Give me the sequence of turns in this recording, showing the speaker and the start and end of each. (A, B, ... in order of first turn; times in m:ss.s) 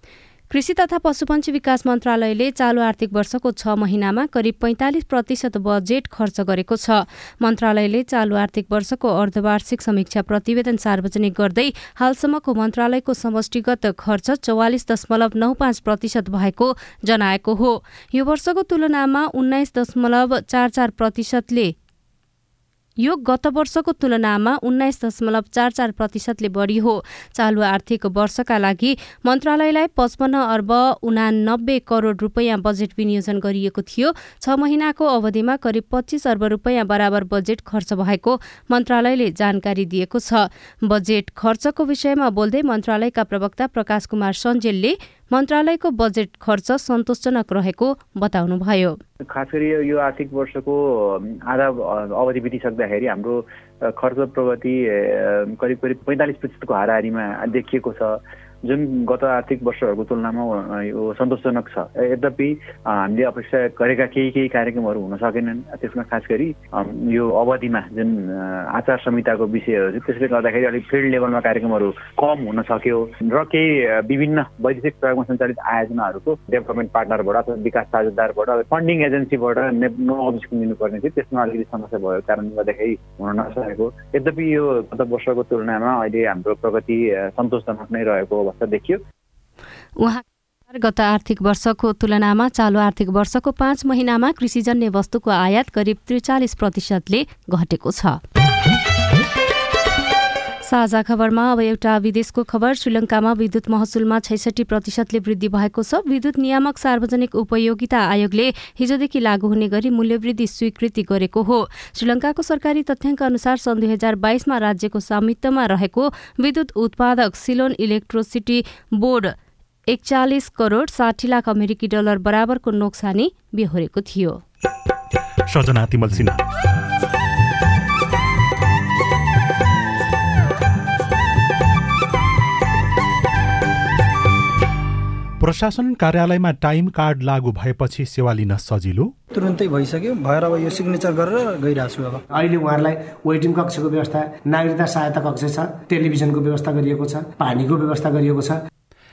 0:00.5-0:21.7 A
0:23.0-0:49.0 A
0:49.3-1:29.0 B
1:30.0-1:38.2 A
1:40.7-1:59.3 A
1:59.9-2:04.4 A
2:05.5-2:06.4 C
2:15.4-2:19.1 C
2:19.3-2:22.2 D
2:22.3-2:28.6 E